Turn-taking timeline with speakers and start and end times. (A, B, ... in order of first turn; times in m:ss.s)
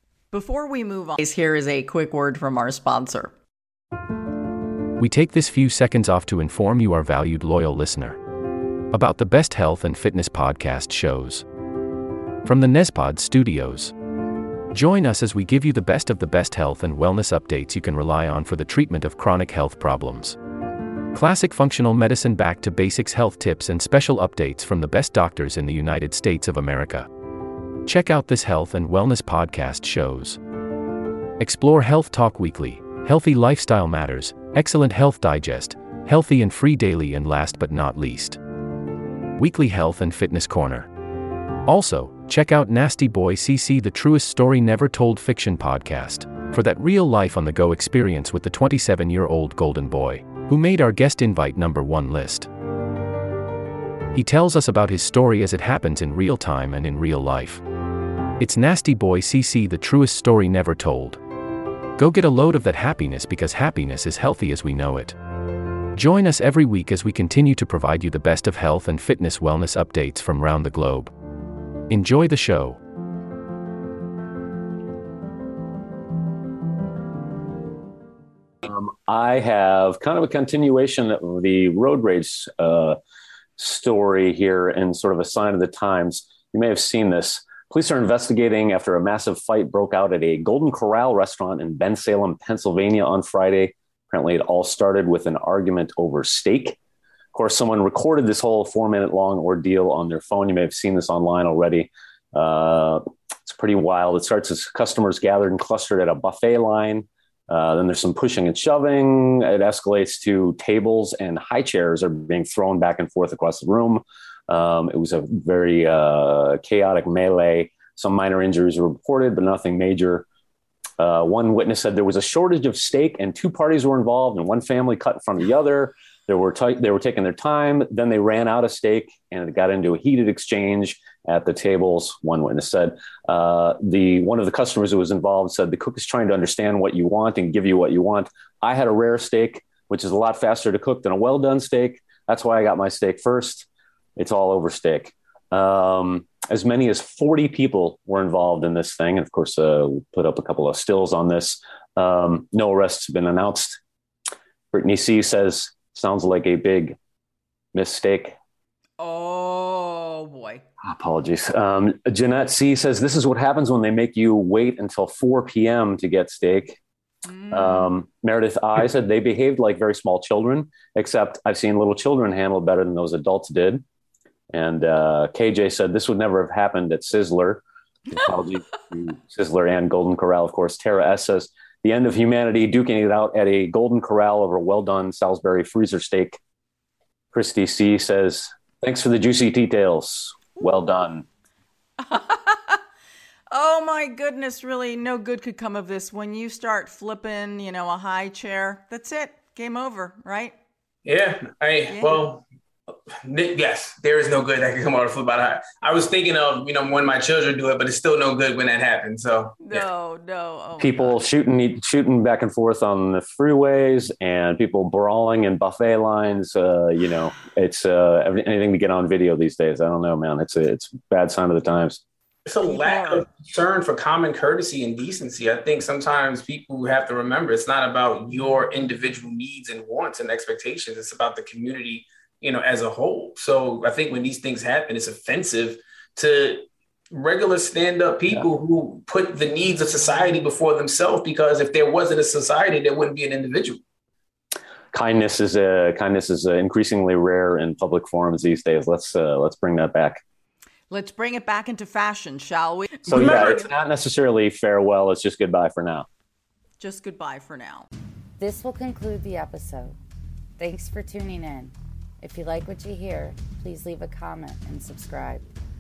0:00.3-0:03.3 A
0:05.0-0:08.2 B
0:08.9-0:11.4 B
0:12.4-0:13.9 B
0:14.7-0:20.4 B
0:21.1-0:27.1 B
0:27.8-0:30.4 B
0:31.4-0:38.4 B
0:39.4-0:40.9 B
0:41.6-0:52.5 B
0:54.1-0:57.6 B
0:58.4-1:01.2 B
1:02.0-1:05.2 B
1:05.9-1:11.1 B
1:11.9-1:12.8 B
1:18.6-1:23.0 C
1:23.6-1:36.8 C
1:37.3-2:00.2 C
2:01.0-2:33.8 C
2:34.7-2:37.0 C
2:37.7-2:38.4 C
2:39.0-2:40.6 A
2:40.8-2:46.8 C
2:47.2-2:47.9 A
2:47.5-2:53.8 C
2:54.5-3:06.4 C
3:07.3-3:11.2 C
3:12.0-3:12.8 A
3:13.5-3:20.6 A
3:21.0-3:22.4 D
3:21.9-3:22.2 A
3:23.2-3:29.8 D
3:29.6-3:31.2 A
3:30.8-3:42.0 C
3:42.4-4:03.8 D
3:42.6-3:43.2 A
4:04.9-4:10.2 C
4:10.9-4:13.6 A
4:13.0-4:16.0 C
4:13.1-4:13.6 D
4:16.8-4:17.9 A
4:18.4-4:20.0 E
4:20.6-4:25.4 E